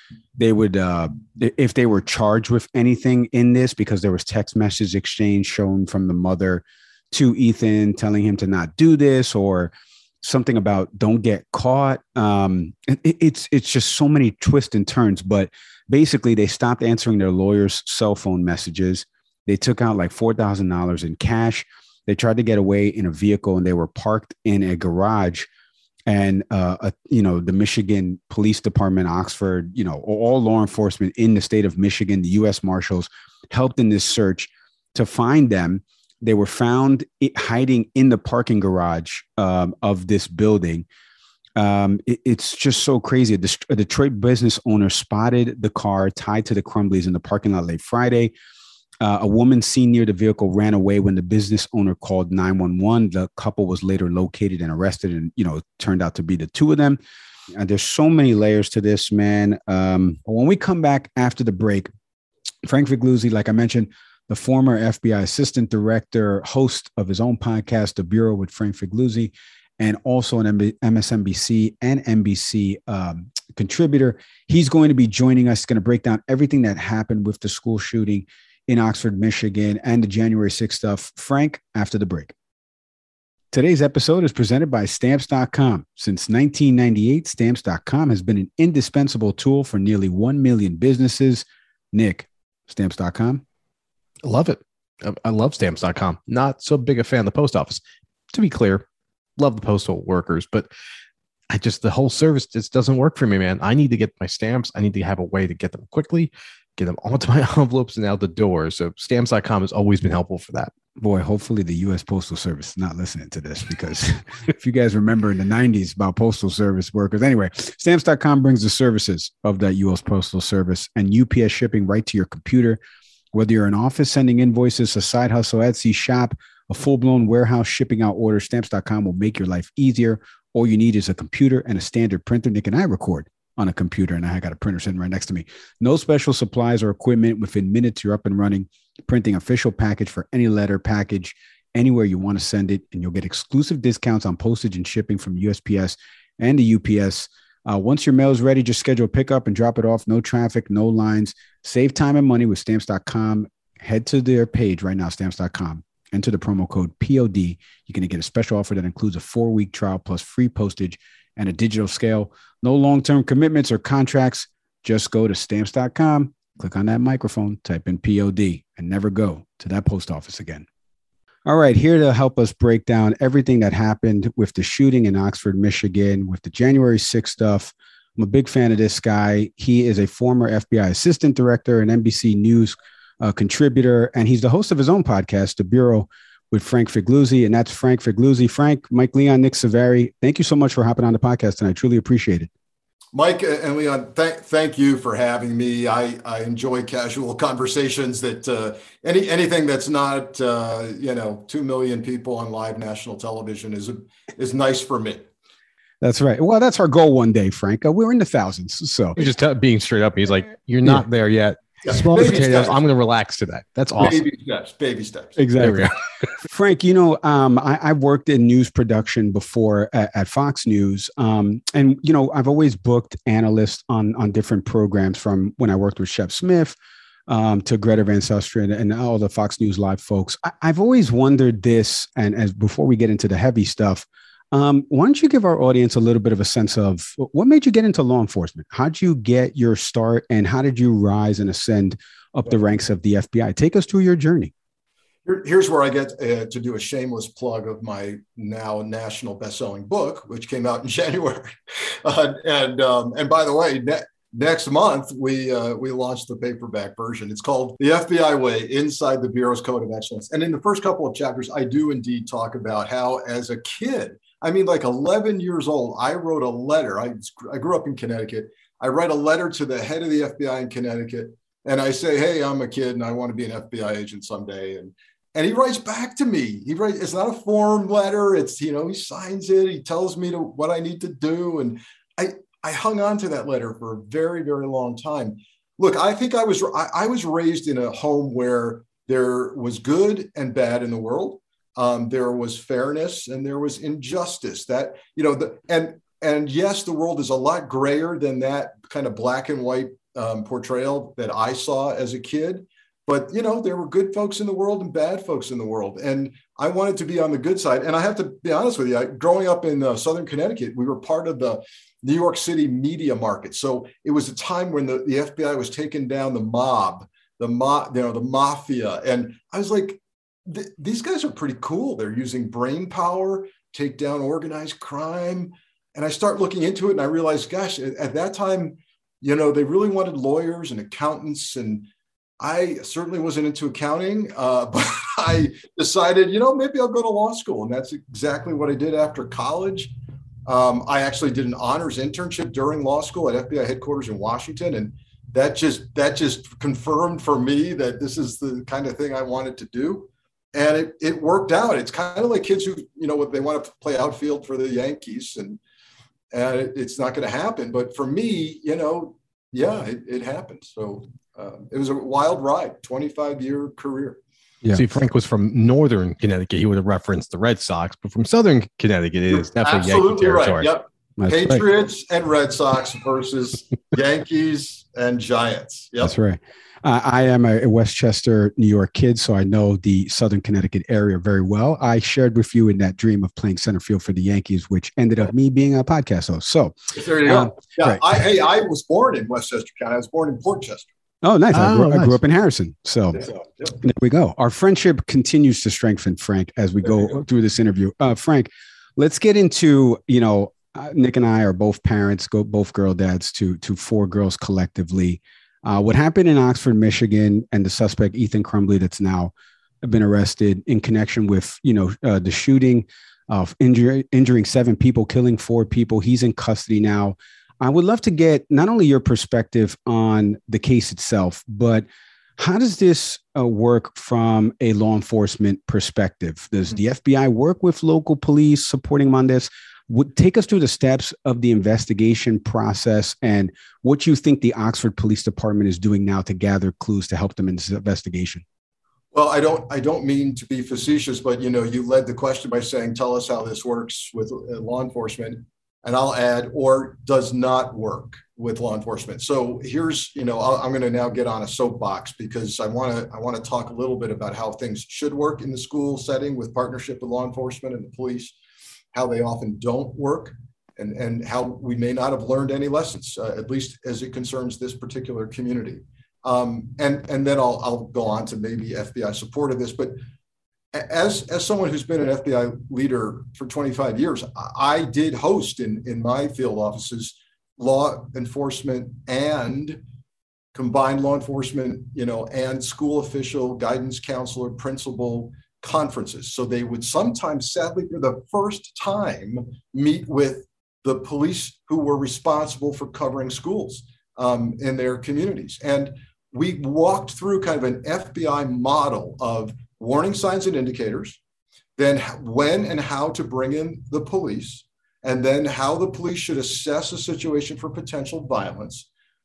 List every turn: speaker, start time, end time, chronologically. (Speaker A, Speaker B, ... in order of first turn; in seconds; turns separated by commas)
Speaker A: 0.4-25.5, Speaker A: 26.1-40.9, Speaker A: 41.6-48.3, Speaker A: 49.0-57.0, Speaker A: 57.5-61.9, Speaker A: 62.6-82.3, Speaker A: 83.5-93.4, Speaker B: 94.2-97.8, Speaker B: 98.3-98.8, Speaker B: 99.4-100.7, Speaker B: 101.5-110.7, Speaker A: 111.0-122.8, Speaker A: 123.3-170.7, Speaker A: 171.4-192.5, Speaker C: 193.1-205.3, Speaker A: 206.0-209.2, Speaker B: 209.2-214.2, Speaker C: 211.8-212.8, Speaker C: 214.0-215.4, Speaker A: 215.4-226.8, Speaker B: 215.6-215.9, Speaker A: 227.3-244.5, Speaker C: 245.3-251.5, Speaker C: 252.0-331.9, Speaker C: 332.4-339.9, Speaker C: 340.5-355.6, Speaker C: 356.3-364.2, Speaker B: 364.8-370.7, Speaker C: 369.3-376.1, Speaker A: 371.2-371.6, Speaker A: 376.0-388.0, Speaker C: 387.0-390.9, Speaker A: 391.2-421.9, Speaker B: 391.5-392.2, Speaker A: 422.4-438.4, Speaker C: 439.1-458.3, Speaker C: 458.9-470.0, Speaker C: 470.7-479.8, Speaker C: 480.5-501.2, Speaker C: 501.8-508.9